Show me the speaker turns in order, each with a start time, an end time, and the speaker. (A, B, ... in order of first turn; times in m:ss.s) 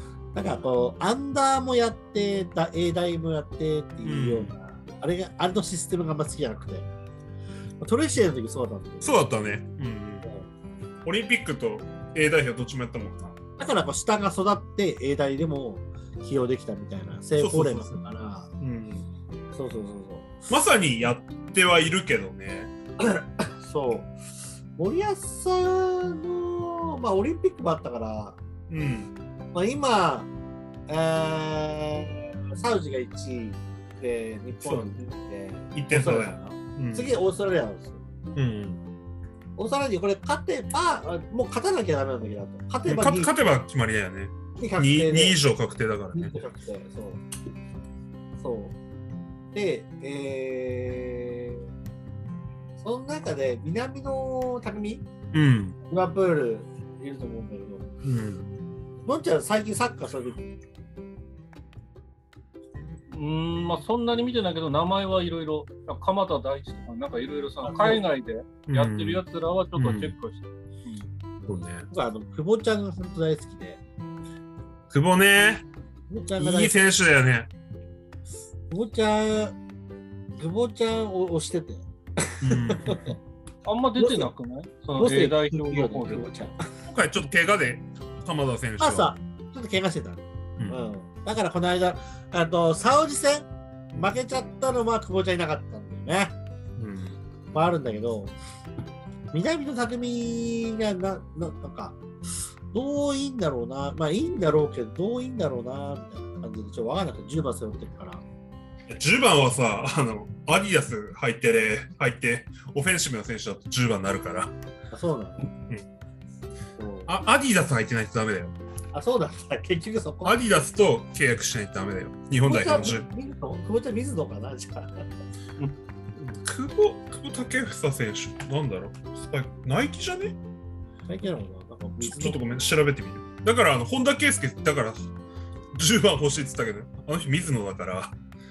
0:00.3-0:06.9 A
0:04.0-0:04.5 B
0:07.8-0:09.2 A
0:09.0-0:10.3 B
0:11.0-0:13.4 B
0:13.6-0:18.5 A
0:17.4-0:18.0 B
0:18.6-0:19.0 B
0:19.5-0:20.3 A
0:20.5-0:22.7 B
0:23.0-0:24.1 A
0:24.8-0:28.4 A
0:28.7-0:29.2 B
0:29.5-0:30.3 A
0:30.9-0:38.0 A
0:34.6-0:35.0 B
0:35.7-0:37.1 B
0:38.3-0:38.8 B
0:39.6-0:43.4 A
0:42.8-0:46.4 B
0:44.6-0:45.4 A
0:46.1-0:47.2 A
0:48.4-0:48.8 A
0:49.5-0:51.6 A
0:52.8-0:55.0 A
0:55.3-0:55.8 B
0:55.8-0:57.8 A
0:58.0-0:58.5 B
0:59.0-1:00.4 A
1:03.1-1:11.0 C
1:07.6-1:08.0 A
1:08.7-1:09.2 B
1:09.7-1:10.1 B
1:11.5-1:11.9 B
1:11.9-1:13.8 A
1:14.9-1:15.6 B
1:16.1-1:16.8 A
1:16.4-1:17.5 B
1:18.7-1:19.6 A
1:20.3-1:23.2 A
1:22.4-1:23.1 B
1:23.6-1:26.3 C
1:24.0-1:24.3 A
1:25.0-1:26.6 A
1:26.8-1:29.1 B
1:28.8-1:36.4 A
1:36.8-1:37.2 B
1:37.5-1:38.3 A
1:39.3-1:42.0 A
1:42.7-1:48.2 A
1:48.9-1:54.5 B
1:54.9-1:55.5 A
1:56.8-1:57.1 A
1:57.1-1:58.5 B
1:58.9-2:00.3 A
2:00.2-2:03.1 B
2:02.4-2:05.1 A
2:06.1-2:10.4 B
2:11.1-2:12.6 A
2:12.0-2:15.0 B
2:15.7-2:18.1 B